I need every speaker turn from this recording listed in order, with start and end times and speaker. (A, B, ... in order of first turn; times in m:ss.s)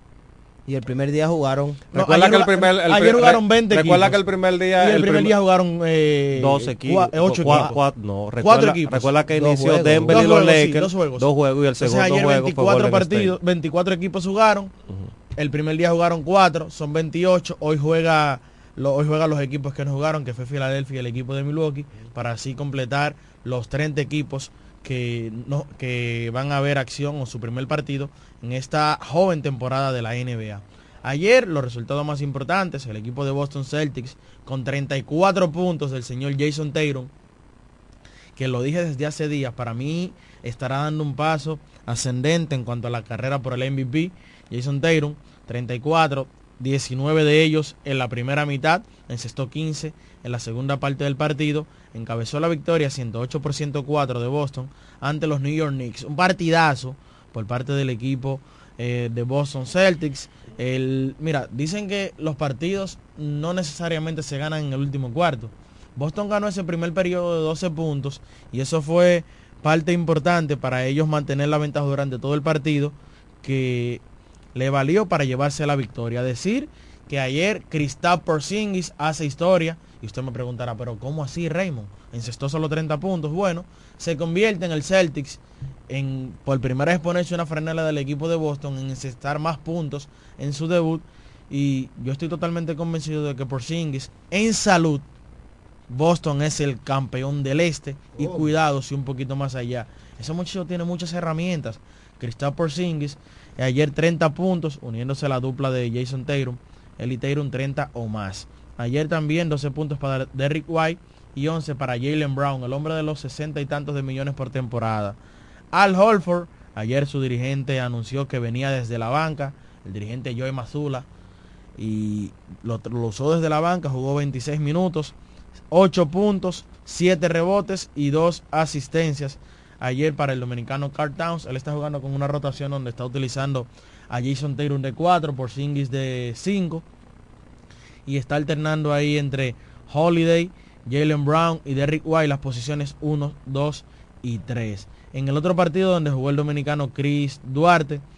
0:00.7-0:01.9 A
0:01.9-0:05.4 B
0:01.9-0:04.2 C
0:04.8-0:07.8 C
0:06.3-0:13.4 B
0:07.4-0:07.8 A
0:08.4-0:09.1 C
0:09.3-0:10.4 A
0:10.1-0:11.3 C
0:11.8-0:14.7 C
0:15.4-0:37.1 C
0:38.4-1:14.0 C
1:14.6-1:35.0 C
1:35.9-1:55.2 C
1:55.7-2:01.1 C
2:01.8-2:05.1 C
2:05.7-2:16.8 C
2:18.1-2:28.0 C